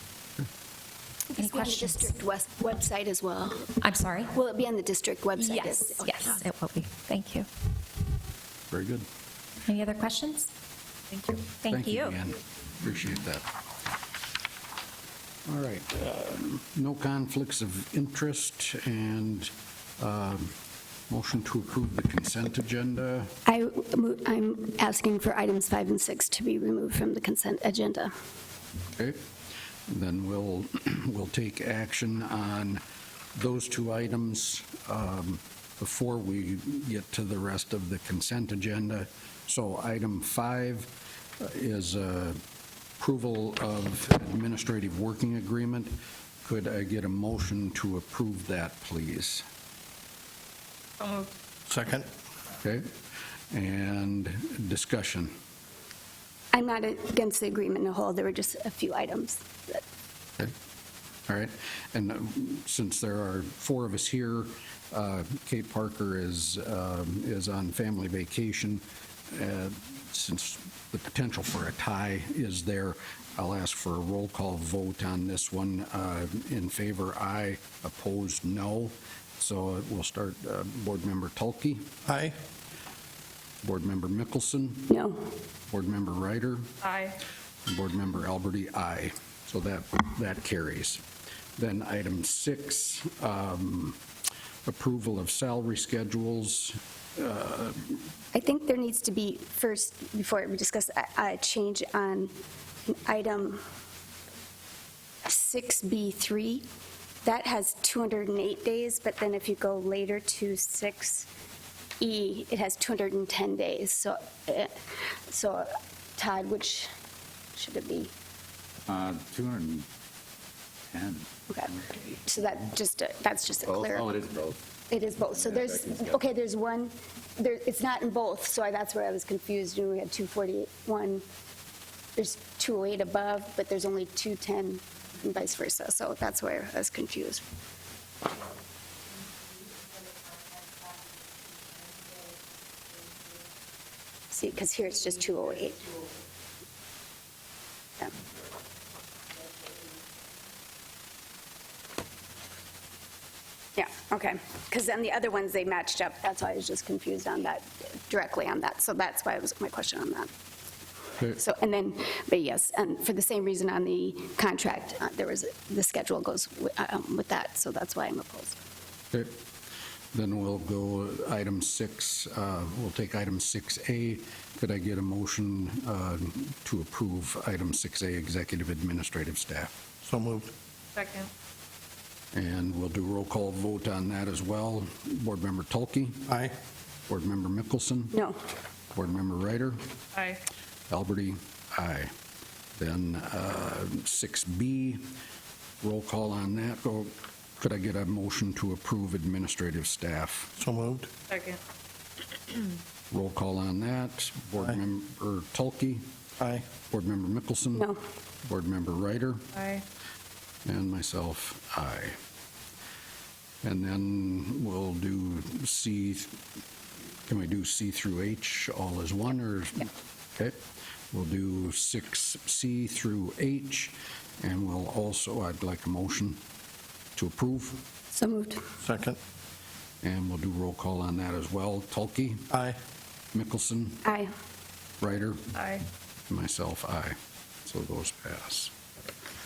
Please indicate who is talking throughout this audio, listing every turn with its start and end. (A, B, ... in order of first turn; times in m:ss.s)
0:01.3-0:03.8 A
0:01.4-0:02.2 B
0:03.8-0:04.4 B
0:04.3-0:06.4 A
0:05.4-0:07.5 B
0:08.7-0:09.1 C
0:09.6-0:10.5 B
0:11.1-0:12.2 B
0:11.7-0:13.5 C
0:15.5-0:20.5 C
0:21.1-0:23.3 C
0:23.5-0:28.1 A
0:28.9-0:29.2 C
0:29.9-0:32.8 C
0:33.4-0:42.4 C
0:43.0-0:49.4 C
0:51.0-0:51.3 D
0:51.7-0:52.1 E
0:52.6-0:52.9 C
0:53.5-0:55.3 C
0:56.5-0:59.8 A
1:01.3-1:21.9 C
1:22.1-1:22.4 E
1:23.6-1:25.0 C
1:24.9-1:25.2 A
1:25.7-1:26.7 C
1:26.8-1:27.2 D
1:27.7-1:31.0 C
1:31.6-1:34.0 C
1:34.6-1:38.0 C
1:38.3-1:42.3 A
1:42.9-1:43.6 A
1:45.3-1:46.7 A
1:47.2-1:51.3 A
1:52.0-1:54.8 A
1:55.3-1:56.9 A
1:57.6-1:58.1 A
1:58.9-1:59.9 F
2:00.9-2:01.3 F
2:01.5-2:04.2 A
2:03.7-2:04.6 F
2:04.9-2:11.2 A
2:05.6-2:06.1 F
2:12.2-2:17.4 A
2:24.3-2:26.1 A
2:33.8-2:40.3 A
2:41.4-2:48.6 A
2:49.1-2:49.4 C
2:50.1-2:59.8 C
3:00.0-3:00.5 E
3:00.9-3:01.3 D
3:02.3-3:06.4 C
3:06.3-3:06.5 E
3:07.1-3:08.2 C
3:08.1-3:08.4 A
3:08.9-3:09.8 C
3:10.2-3:10.4 D
3:10.9-3:12.1 C
3:12.8-3:15.1 C
3:15.8-3:20.5 C
3:20.6-3:21.1 E
3:21.3-3:21.6 D
3:23.1-3:26.1 C
3:26.4-3:26.7 E
3:26.8-3:27.9 C
3:28.4-3:29.5 C
3:29.5-3:29.8 D
3:30.6-3:32.2 C
3:33.6-3:36.4 C
3:37.2-3:46.4 C
3:47.2-3:47.8 C
3:48.1-3:48.7 A
3:48.8-3:49.2 E
3:50.0-3:52.5 C
3:52.5-3:52.8 E
3:53.3-3:54.1 C
3:54.1-3:54.3 A
3:55.0-3:55.5 C
3:55.5-3:55.8 D
3:56.3-3:58.7 C